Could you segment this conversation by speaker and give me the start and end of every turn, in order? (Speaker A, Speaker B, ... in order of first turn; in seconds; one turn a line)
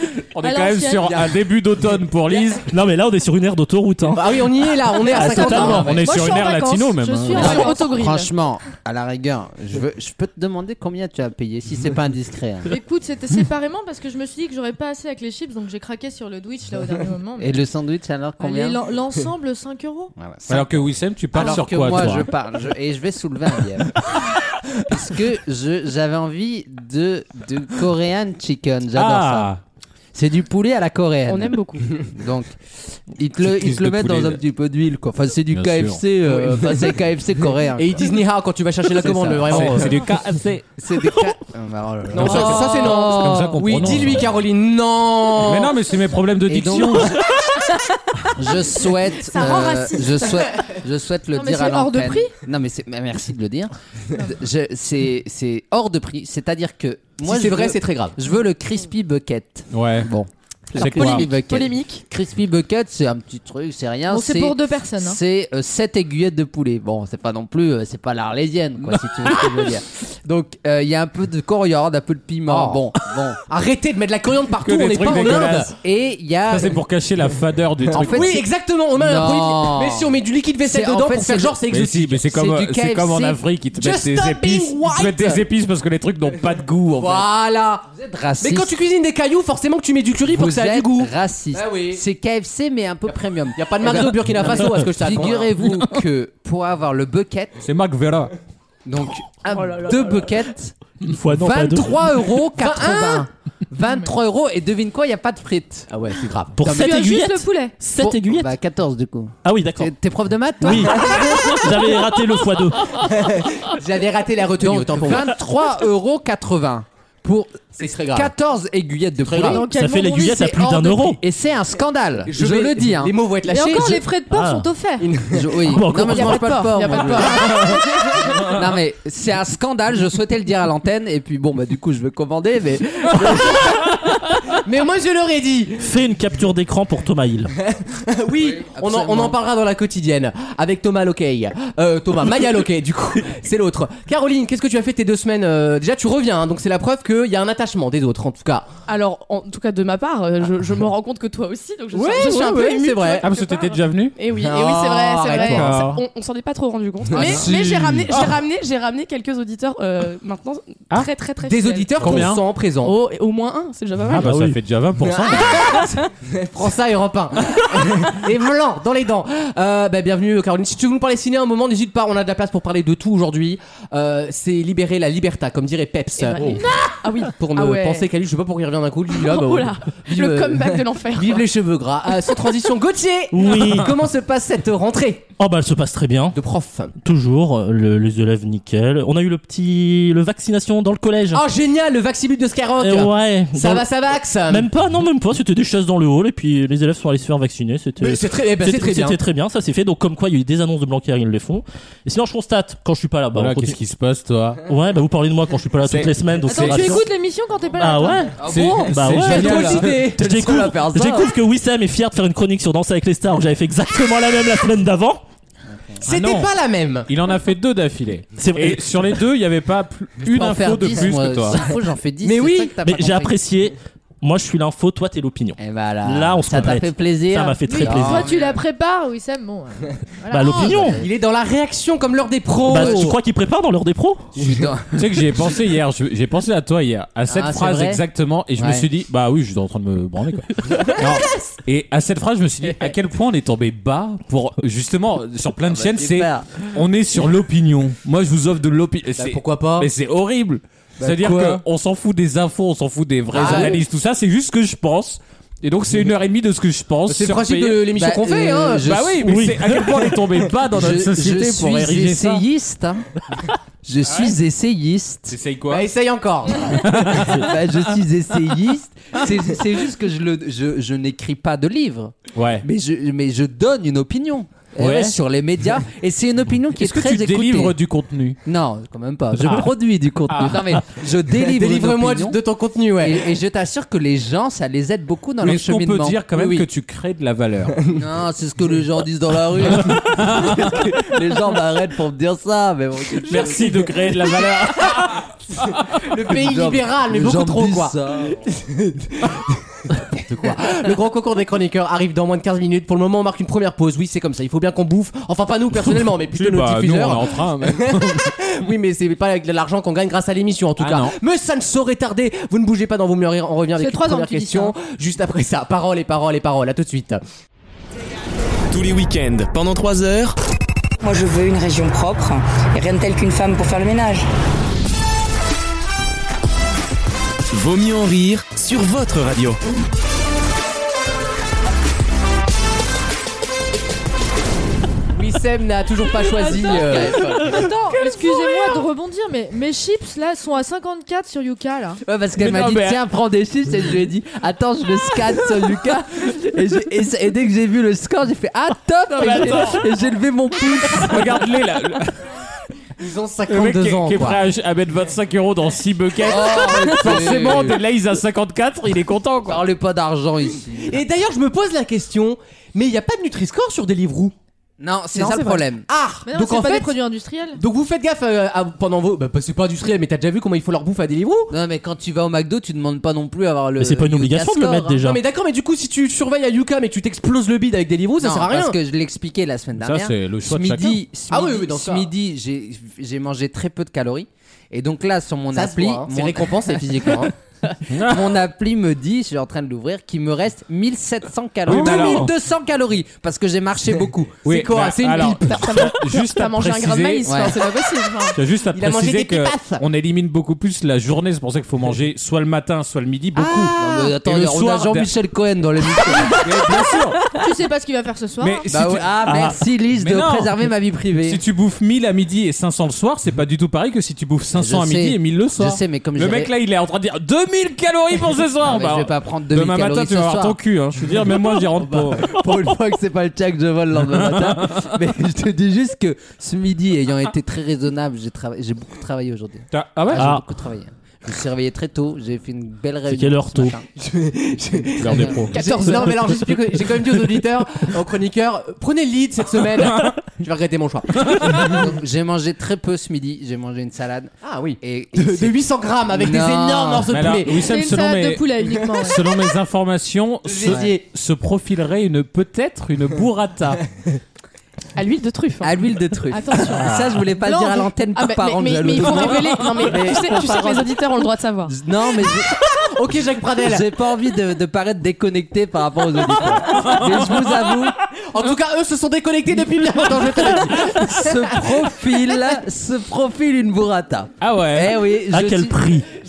Speaker A: 0.3-2.6
Speaker B: 0.4-1.2
Speaker C: 2.6-4.5
Speaker D: 4.0-6.0
Speaker C: 5.0-6.0
Speaker B: 5.1-7.8
Speaker A: 5.7-7.7
Speaker E: 7.3-12.7
Speaker F: 7.4-8.3
Speaker B: 12.7-17.6
Speaker E: 17.4-18.8
Speaker B: 18.4-20.1
Speaker E: 20.1-24.1
Speaker A: 20.5-22.3
Speaker E: 24.7-29.5
Speaker A: 28.9-29.6
Speaker E: 30.1-31.6
Speaker F: 31.3-31.9
Speaker E: 32.1-32.5
Speaker E: 33.1-38.2
Speaker A: 33.4-34.4
Speaker A: 35.5-36.0
Speaker D: 37.7-39.9
Speaker E: 39.0-40.0
Speaker A: 39.2-40.7
Speaker E: 40.8-44.1
Speaker D: 42.1-45.7
Speaker A: 42.1-44.4
Speaker A: 45.4-47.2
Speaker E: 46.5-47.2
Speaker E: 48.4-73.4
Speaker B: 49.3-50.2
Speaker B: 51.3-52.3
Speaker D: 57.2-58.1
Speaker A: 59.7-60.1
Speaker A: 60.7-61.3
Speaker F: 60.7-62.0
Speaker B: 64.1-65.2
Speaker A: 68.8-69.7
Speaker D: 72.5-72.8
Speaker D: 73.5-75.7
Speaker A: 74.6-75.7
Speaker E: 75.0-76.8
Speaker A: 76.5-78.3
Speaker E: 77.9-81.6
Speaker D: 78.0-82.2
Speaker A: 81.7-87.3
Speaker E: 82.2-83.4
Speaker D: 83.7-85.4
Speaker D: 87.0-92.0
Speaker E: 87.9-88.8
Speaker E: 90.2-97.5
Speaker D: 93.5-95.5
Speaker A: 97.6-98.3
Speaker E: 98.8-100.8
Speaker F: 99.7-100.3
Speaker C: 101.0-102.1
Speaker E: 101.4-105.9
Speaker D: 102.5-103.3
Speaker D: 105.9-106.6
Speaker C: 106.6-108.5
Speaker E: 106.6-107.0
Speaker B: 106.6-107.7
Speaker E: 108.0-111.6
Speaker C: 109.4-109.9
Speaker C: 110.6-113.1
Speaker D: 113.3-115.3
Speaker E: 114.6-119.7
Speaker D: 117.7-118.3
Speaker D: 119.3-119.6
Speaker B: 119.4-120.5
Speaker C: 119.7-121.2
Speaker E: 120.2-123.1
Speaker D: 122.3-124.0
Speaker B: 123.5-125.1
Speaker C: 124.3-124.7
Speaker D: 125.0-125.6
Speaker E: 125.3-127.7
Speaker C: 125.6-126.6
Speaker F: 126.0-127.7
Speaker D: 127.3-127.6
Speaker E: 128.5-133.8
Speaker D: 133.4-133.9
Speaker D: 134.5-135.9
Speaker C: 135.8-137.5
Speaker D: 137.9-148.8
Speaker E: 138.3-139.4
Speaker F: 148.9-162.3
Speaker A: 151.9-154.1
Speaker D: 151.9-153.3
Speaker D: 154.3-155.8
Speaker A: 155.4-156.0
Speaker D: 157.1-158.3
Speaker A: 157.1-158.4
Speaker D: 161.4-162.9
Speaker A: 162.0-162.4
Speaker F: 162.8-164.3
Speaker A: 164.1-165.9
Speaker C: 164.1-164.6
Speaker D: 165.0-176.6
Speaker F: 165.6-166.0
Speaker F: 176.2-178.1
Speaker A: 176.3-176.6
Speaker D: 177.2-185.3
Speaker F: 179.1-181.4
Speaker C: 183.3-183.9
Speaker C: 185.4-186.4
Speaker D: 186.3-186.9
Speaker C: 187.0-191.4
Speaker D: 191.3-194.7
Speaker C: 192.8-193.8
Speaker C: 194.5-203.8
Speaker D: 198.0-199.2
Speaker A: 203.3-204.6
Speaker C: 204.7-207.0
Speaker D: 205.9-206.9
Speaker B: 206.4-208.3
Speaker C: 207.8-215.2
Speaker E: 208.4-211.1
Speaker A: 208.5-210.0
Speaker D: 208.5-211.2
Speaker E: 215.7-216.0
Speaker D: 216.0-217.1
Speaker A: 216.1-216.5
Speaker A: 217.1-221.6
Speaker C: 218.4-218.8
Speaker E: 220.2-223.4
Speaker D: 222.2-222.8
Speaker C: 222.8-228.2
Speaker E: 225.6-228.6
Speaker B: 227.6-230.9
Speaker D: 228.2-228.5
Speaker C: 230.3-231.0
Speaker E: 230.6-231.1
Speaker D: 230.8-233.2
Speaker C: 232.6-234.3
Speaker E: 234.3-235.3
Speaker A: 234.9-257.9
Speaker E: 237.3-238.0
Speaker E: 238.6-238.8
Speaker E: 245.6-246.5
Speaker D: 249.2-249.9
Speaker E: 251.0-251.6
Speaker E: 253.3-253.8
Speaker D: 253.3-253.8
Speaker D: 257.1-258.9
Speaker E: 257.9-259.4
Speaker A: 258.8-262.4
Speaker C: 259.2-260.0
Speaker E: 260.7-263.0
Speaker E: 263.8-265.4
Speaker A: 264.1-264.3
Speaker A: 265.3-265.9
Speaker D: 265.7-267.0
Speaker A: 266.7-267.5
Speaker E: 267.1-277.8
Speaker A: 272.3-272.6
Speaker A: 274.8-275.1
Speaker A: 276.8-278.4
Speaker E: 278.4-282.4
Speaker A: 280.3-280.8
Speaker D: 281.3-283.2
Speaker E: 283.0-286.6
Speaker A: 285.4-287.8
Speaker E: 287.9-293.9
Speaker A: 289.7-290.9
Speaker A: 293.2-295.9
Speaker D: 295.9-317.2
Speaker E: 296.3-298.4
Speaker A: 306.3-308.3
Speaker A: 310.8-311.1
Speaker B: 313.8-314.8
Speaker G: 318.7-320.4
Speaker H: 321.0-324.2
Speaker G: 327.5-329.6
Speaker D: 335.1-337.6
Speaker E: 336.6-337.6
Speaker B: 337.4-342.0
Speaker E: 342.0-351.4
Speaker A: 342.4-343.0
Speaker A: 349.1-349.8
Speaker A: 350.9-352.1
Speaker D: 353.0-354.4
Speaker A: 353.5-359.6
Speaker E: 356.2-357.8
Speaker E: 359.4-361.0
Speaker D: 360.8-364.3
Speaker E: 364.8-365.9
Speaker F: 365.2-365.6
Speaker D: 365.9-366.9
Speaker B: 366.2-367.6
Speaker D: 367.6-371.5
Speaker E: 371.5-375.0
Speaker C: 373.8-375.2
Speaker D: 375.0-378.8
Speaker E: 378.2-387.3
Speaker A: 379.8-381.0
Speaker D: 381.3-382.1
Speaker D: 385.5-387.3
Speaker A: 387.9-388.4
Speaker E: 387.9-394.4
Speaker A: 391.6-392.3
Speaker D: 391.7-392.3
Speaker D: 394.4-395.8
Speaker A: 394.4-397.5
Speaker F: 395.5-398.4
Speaker E: 397.2-397.6
Speaker A: 398.3-405.1
Speaker D: 398.7-399.8
Speaker D: 403.4-404.1
Speaker E: 403.7-406.5
Speaker A: 406.3-407.2
Speaker B: 407.4-408.6
Speaker A: 408.4-410.6
Speaker E: 408.7-411.4
Speaker A: 411.2-422.4
Speaker E: 414.5-416.5
Speaker E: 418.6-420.6
Speaker E: 421.4-433.8
Speaker A: 424.1-425.0
Speaker A: 429.7-430.2
Speaker C: 430.1-430.4
Speaker C: 433.1-433.8
Speaker D: 434.0-441.8
Speaker A: 435.0-435.6
Speaker E: 435.0-435.9
Speaker A: 439.8-440.1
Speaker A: 441.2-441.8
Speaker E: 441.5-447.1
Speaker D: 444.4-447.7
Speaker A: 447.1-453.8
Speaker B: 447.5-449.2
Speaker D: 450.4-451.0
Speaker E: 450.6-450.9
Speaker F: 454.9-455.7
Speaker E: 455.6-460.9
Speaker F: 456.3-456.8
Speaker B: 457.5-457.7
Speaker F: 457.6-461.8
Speaker A: 459.0-459.9
Speaker E: 461.6-462.5
Speaker D: 462.5-463.9
Speaker E: 463.6-467.9
Speaker A: 466.6-467.8
Speaker D: 468.3-471.8
Speaker E: 470.6-475.8
Speaker A: 474.4-475.0
Speaker C: 475.3-476.1